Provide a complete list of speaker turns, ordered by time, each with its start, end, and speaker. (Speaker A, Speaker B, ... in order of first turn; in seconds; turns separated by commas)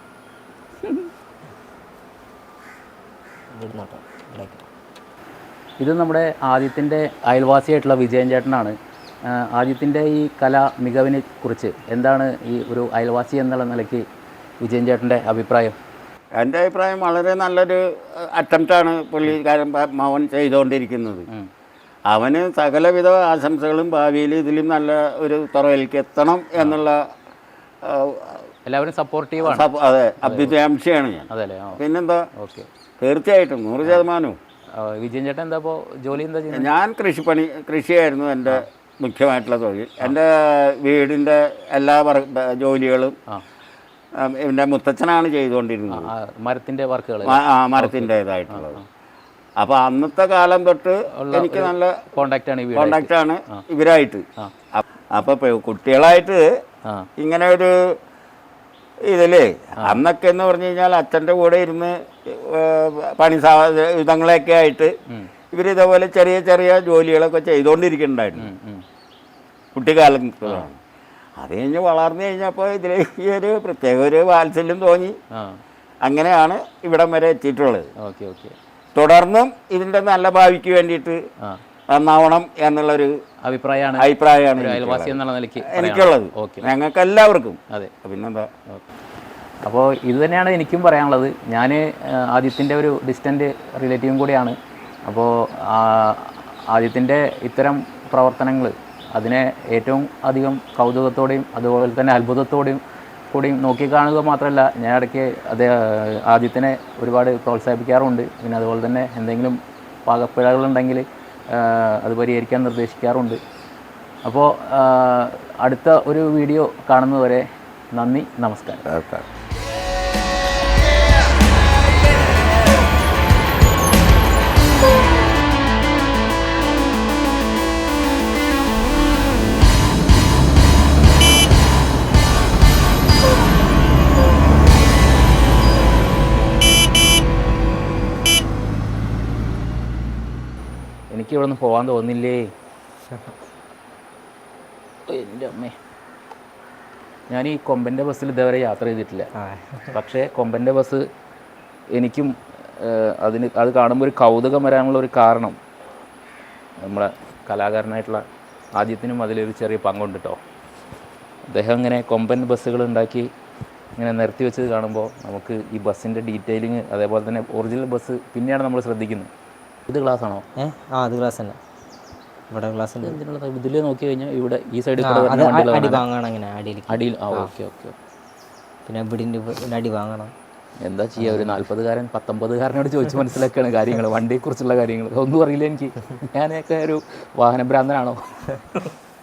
Speaker A: 3.5-4.7, Speaker B: 5.8-14.1, Speaker B: 14.6-15.8, Speaker C: 16.4-21.3, Speaker C: 22.1-27.1, Speaker C: 27.8-28.4, Speaker B: 28.6-29.7, Speaker C: 29.4-32.3, Speaker B: 30.2-30.6, Speaker B: 31.3-31.8, Speaker B: 32.3-32.7, Speaker C: 33.0-34.4, Speaker B: 34.7-36.7, Speaker C: 36.5-43.1, Speaker C: 44.1-46.1, Speaker B: 45.9-48.9, Speaker C: 47.2-48.8, Speaker C: 49.6-52.1, Speaker B: 51.1-53.6, Speaker C: 52.8-56.6, Speaker C: 57.2-58.0, Speaker C: 59.1-65.0, Speaker C: 65.5-68.5, Speaker B: 68.4-68.8, Speaker C: 69.8-70.8, Speaker C: 71.4-75.2, Speaker B: 75.3-75.6, Speaker C: 76.0-77.9, Speaker B: 78.0-78.5, Speaker C: 78.9-81.2, Speaker C: 81.9-83.1, Speaker B: 83.4-86.7, Speaker C: 84.0-88.5, Speaker B: 89.6-102.8, Speaker B: 103.3-113.4, Speaker B: 114.2-119.0, Speaker B: 141.1-142.5, Speaker B: 145.1-145.8, Speaker B: 147.3-149.3, Speaker A: 149.4-150.0, Speaker B: 149.9-151.1, Speaker B: 151.9-155.6, Speaker B: 156.8-158.2, Speaker B: 158.8-160.4, Speaker B: 161.5-163.3, Speaker B: 164.0-169.3, Speaker B: 169.9-170.4, Speaker A: 170.6-171.6, Speaker A: 172.5-173.2, Speaker B: 173.0-176.0, Speaker A: 175.0-177.5, Speaker B: 176.9-178.0, Speaker A: 178.9-180.3, Speaker B: 180.8-188.9, Speaker A: 181.2-181.6